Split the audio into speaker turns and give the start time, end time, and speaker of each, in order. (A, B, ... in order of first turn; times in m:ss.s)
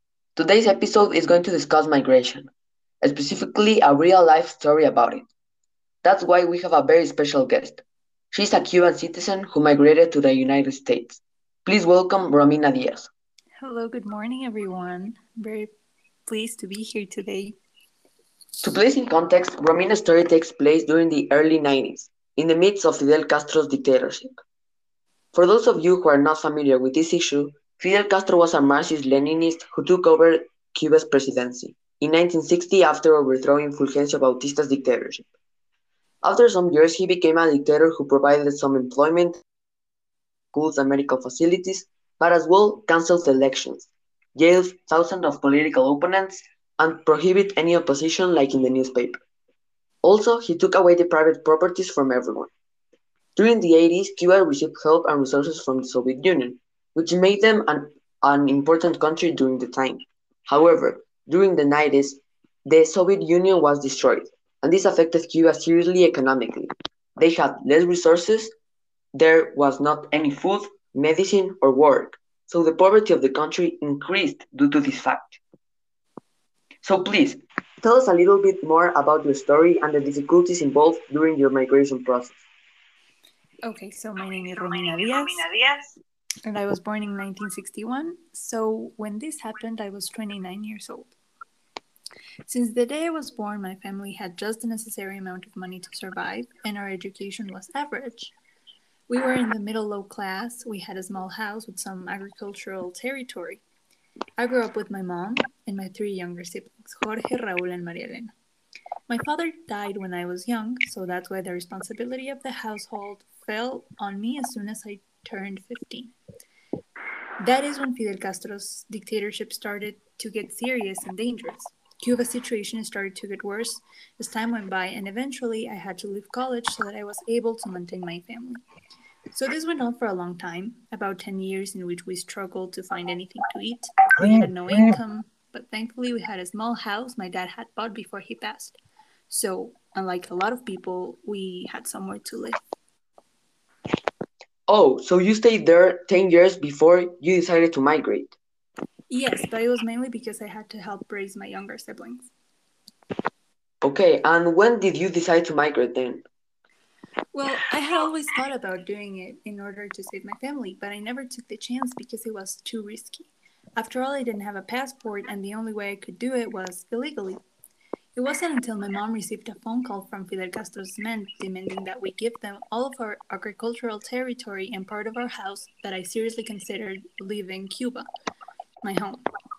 0:00.4-0:02.5 A
0:03.0-0:05.3 A
0:06.0-0:13.1 A
0:13.6-0:15.7 B
0:16.3-0:17.6 B
0:18.6-0:24.4 A
0:25.3-0:35.3 A
0:36.2-0:39.4 A
0:40.5-0:49.2 A
0:50.0-0:52.5 A
0:53.4-1:08.5 A
1:09.2-1:15.4 A
1:16.8-1:22.4 A
1:23.6-1:25.5 B
1:26.4-1:31.1 B
1:32.5-1:38.3 B
1:39.1-1:43.6 B
1:44.4-1:48.3 B
1:49.1-1:56.1 B
1:57.4-2:08.6 B
2:09.3-2:18.8 B
2:19.3-2:22.6 B
2:24.7-2:28.3 A
2:29.1-2:32.3 B
2:33.8-2:36.2 A
2:37.3-2:47.4 B
2:48.2-2:58.1 B
2:58.8-2:59.2 B